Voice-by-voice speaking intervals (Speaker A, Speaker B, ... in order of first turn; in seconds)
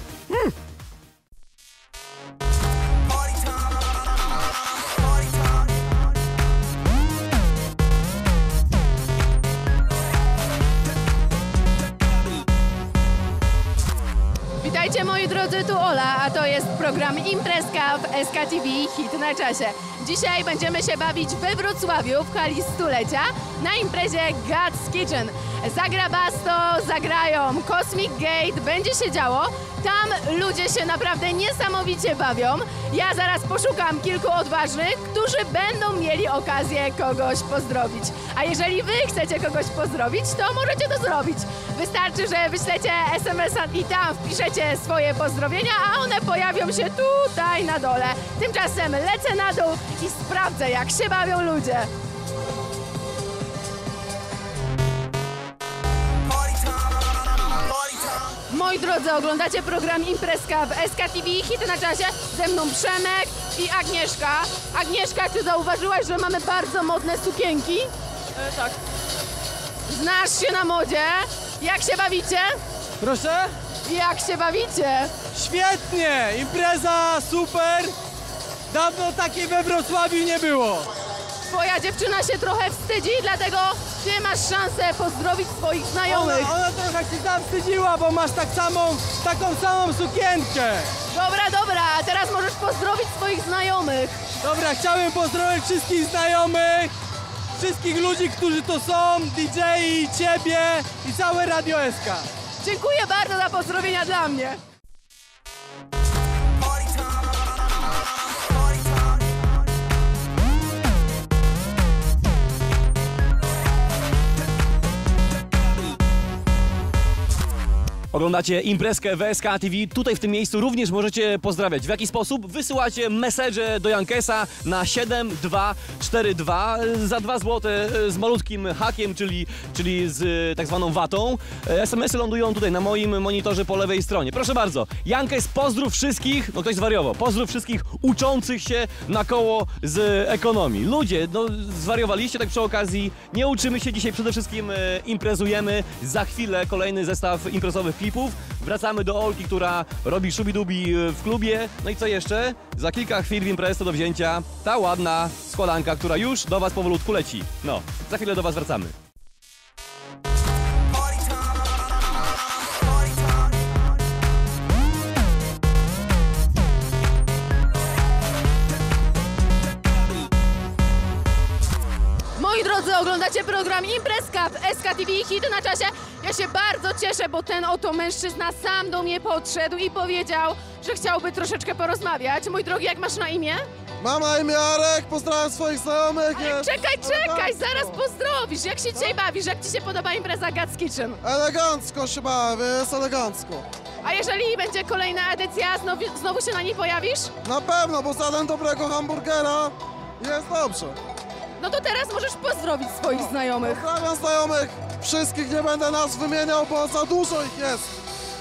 Speaker A: 14.6-51.9, 58.5-67.9, 69.9-72.6, 73.8-75.2, 81.5-86.5, 91.1-94.2, 102.6-104.6, 172.4-183.7, 186.3-191.2, 194.0-197.3, 201.6-203.8
Speaker B: 68.5-68.7, 73.0-73.5, 75.3-78.0, 78.7-80.9, 86.1-90.9, 94.4-96.9, 97.6-102.3
Speaker C: 118.1-158.9
Speaker D: 184.0-188.0, 191.2-193.7, 197.4-201.0, 203.1-207.9